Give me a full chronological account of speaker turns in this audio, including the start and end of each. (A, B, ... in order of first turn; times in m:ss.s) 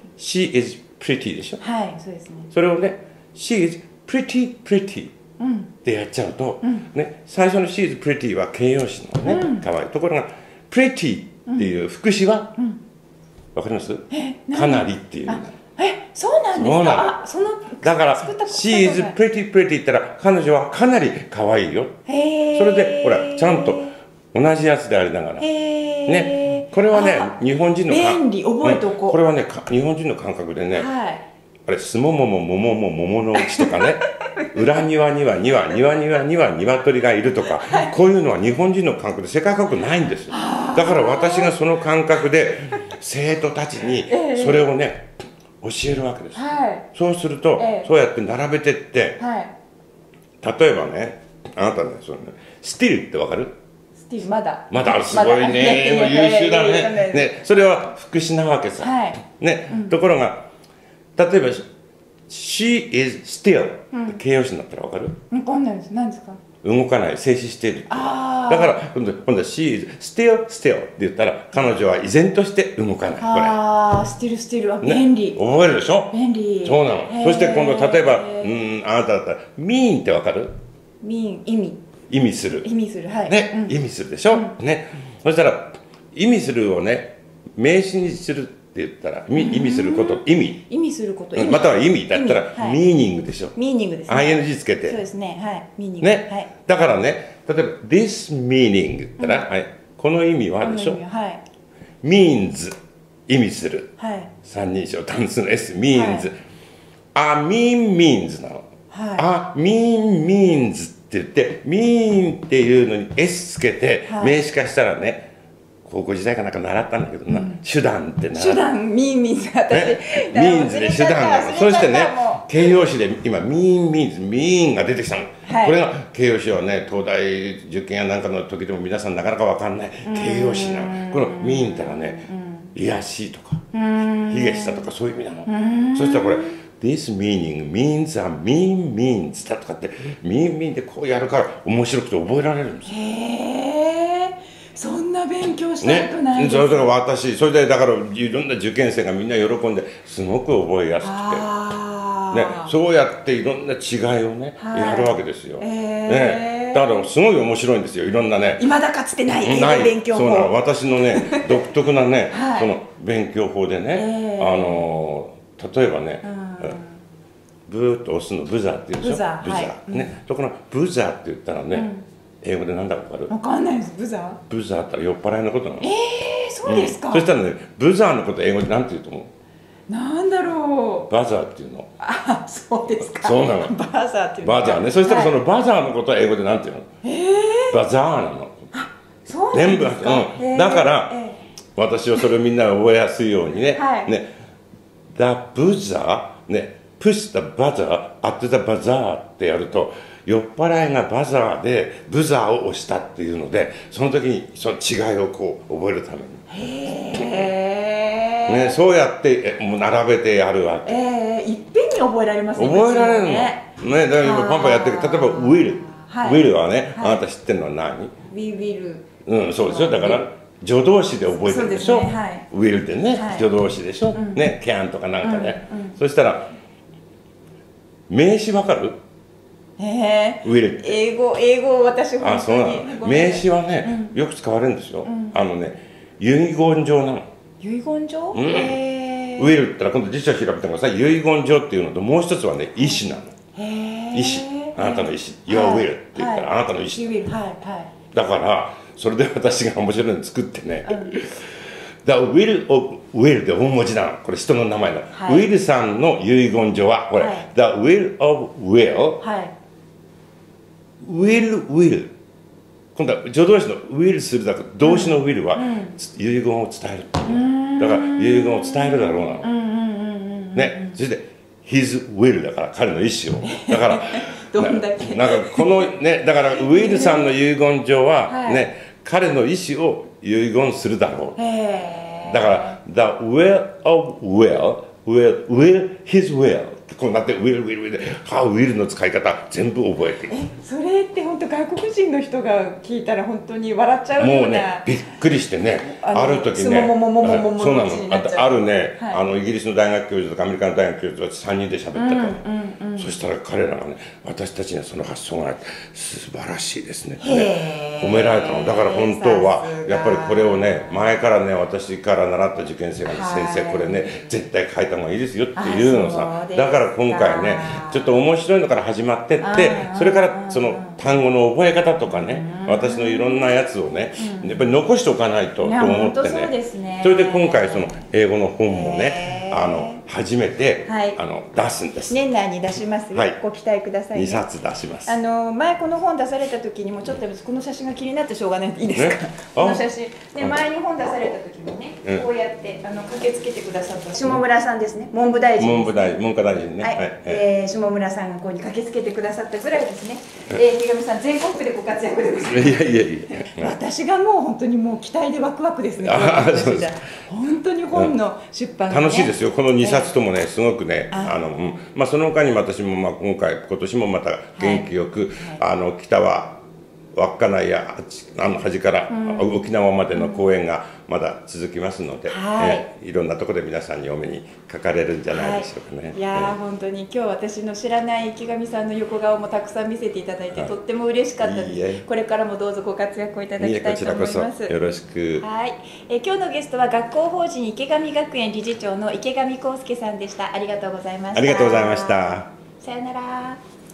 0:00.2-0:01.6 A
0:01.6-0:02.5 B
0:02.5-0:05.1 A
0:05.4-0:05.7 B
0:05.8-0:12.6 A
0:09.3-0:09.6 B
0:11.5-0:11.7 B
0:13.6-0:15.6 A
0:14.1-0:19.2 B
0:16.5-0:17.2 A
0:17.8-0:22.0 A
0:22.1-0:23.9 B
0:22.5-0:25.5 A
0:25.4-0:27.3 B
0:26.1-0:30.9 A
0:27.9-0:29.2 B
0:30.7-0:31.2 B
0:31.7-0:49.2 A
0:33.4-0:34.8 B
0:37.6-0:37.9 B
0:40.3-0:41.6 B
0:44.1-0:44.6 B
0:46.3-0:46.9 B
0:47.6-0:47.9 B
0:49.2-0:49.5 B
0:50.4-0:53.6 A
0:54.0-0:57.4 B
0:54.7-1:00.5 A
0:58.8-0:59.9 B
1:01.2-1:01.7 A
1:02.3-1:05.2 A
1:03.9-1:04.2 B
1:05.3-1:06.4 B
1:06.6-1:13.6 A
1:07.9-1:08.8 B
1:13.2-1:15.4 B
1:14.8-1:16.1 A
1:16.1-1:18.6 B
1:16.6-1:20.5 A
1:21.0-1:21.8 B
1:22.1-1:22.7 A
1:22.6-1:23.8 B
1:23.3-1:30.6 A
1:29.4-1:32.8 B
1:31.4-1:33.6 A
1:33.6-1:36.5 B
1:34.1-1:35.0 A
1:36.0-1:41.0 A
1:39.2-1:39.5 B
1:40.6-1:41.4 B
1:42.0-1:42.8 A
1:43.3-1:43.9 A
1:44.0-1:44.3 B
1:44.4-1:46.4 A
1:45.9-1:46.3 B
1:47.1-1:48.6 A
1:48.9-1:49.2 B
1:49.2-1:55.3 A
1:54.1-1:54.4 B
1:55.8-1:58.7 A
1:57.3-1:57.6 B
1:58.3-2:02.8 B
1:59.7-2:13.6 A
2:05.4-2:05.8 B
2:10.0-2:12.7 B
2:13.7-2:14.9 B
2:14.3-2:22.9 A
2:15.5-2:16.6 B
2:22.9-2:26.9 B
2:25.8-2:31.5 A
2:31.0-2:32.7 B
2:32.3-2:38.7 A
2:34.6-2:37.1 B
2:38.6-2:40.6 B
2:39.4-2:46.8 A
2:41.1-2:41.5 B
2:42.3-2:42.7 B
2:43.9-2:44.8 B
2:46.2-2:47.0 B
2:47.7-2:51.9 A
2:49.0-2:50.2 B
2:51.7-2:52.0 B
2:52.4-2:53.3 A
2:53.3-2:54.4 B
2:54.5-2:55.9 A
2:55.8-2:57.3 B
2:56.6-2:59.3 A
2:59.9-3:01.1 B
3:01.1-3:01.9 A
3:02.0-3:05.4 B
3:03.0-3:03.8 A
3:04.4-3:06.9 A
3:07.0-3:07.8 B
3:07.7-3:08.7 A
3:08.7-3:11.4 B
3:09.5-3:11.1 A
3:11.8-3:14.3 A
3:13.7-3:14.1 B
3:15.1-3:26.5 A
3:26.5-3:28.8 B
3:27.2-3:27.5 A
3:28.5-3:31.0 A
3:30.8-3:37.2 B
3:32.6-3:38.1 A
3:38.3-3:39.1 B
3:39.2-3:46.5 A
3:39.6-3:40.2 B
3:41.4-3:42.5 B
3:43.1-3:43.5 B
3:44.1-3:44.5 B
3:45.2-3:46.0 B
3:48.1-3:49.0 A
3:49.8-3:54.1 B
3:50.4-3:51.0 A
3:52.2-3:57.3 A
3:55.0-3:55.4 B
3:57.6-3:59.6 B
3:58.3-3:58.8 A
3:59.4-4:03.3 A
4:03.6-4:07.9 B
4:04.1-4:07.1 A
4:08.1-4:19.2 A
4:10.8-4:11.2 B
4:15.1-4:15.5 B
4:17.2-4:17.5 B
4:19.2-4:19.5 B
4:21.0-4:22.1 A
4:23.0-4:29.5 A
4:24.8-4:26.0 B
4:27.3-4:31.0 B
4:30.6-4:41.4 A
4:33.5-4:35.9 B
4:36.5-4:37.3 B
4:38.3-4:38.7 B
4:41.4-4:42.8 B
4:42.2-4:50.4 A
4:50.3-4:54.9 B
4:54.2-5:02.4 A
4:55.9-4:59.2 B
5:01.9-5:03.1 B
5:03.0-5:32.2 A
5:07.2-5:11.0 B
5:13.1-5:14.3 B
5:15.6-5:18.1 B
5:19.4-5:21.0 B
5:22.1-5:23.6 B
5:24.2-5:24.8 B
5:25.6-5:28.0 B
5:28.7-5:30.0 B
5:30.8-5:31.2 B
5:32.1-5:34.5 B
5:34.1-5:35.2 A
5:35.1-5:46.2 B
5:39.0-5:39.8 A
5:45.6-5:47.4 A
5:46.8-6:00.2 B
5:52.5-5:53.8 A
5:56.0-5:57.0 A
5:58.9-6:06.6 A
6:01.1-6:01.4 B
6:04.6-6:05.6 B
6:07.1-6:16.6 A
6:09.1-6:09.5 B
6:10.1-6:10.4 B
6:12.3-6:12.9 B
6:15.3-6:24.8 B
6:21.4-6:22.0 A
6:23.6-6:25.4 A
6:25.4-6:33.6 B
6:31.3-6:32.5 A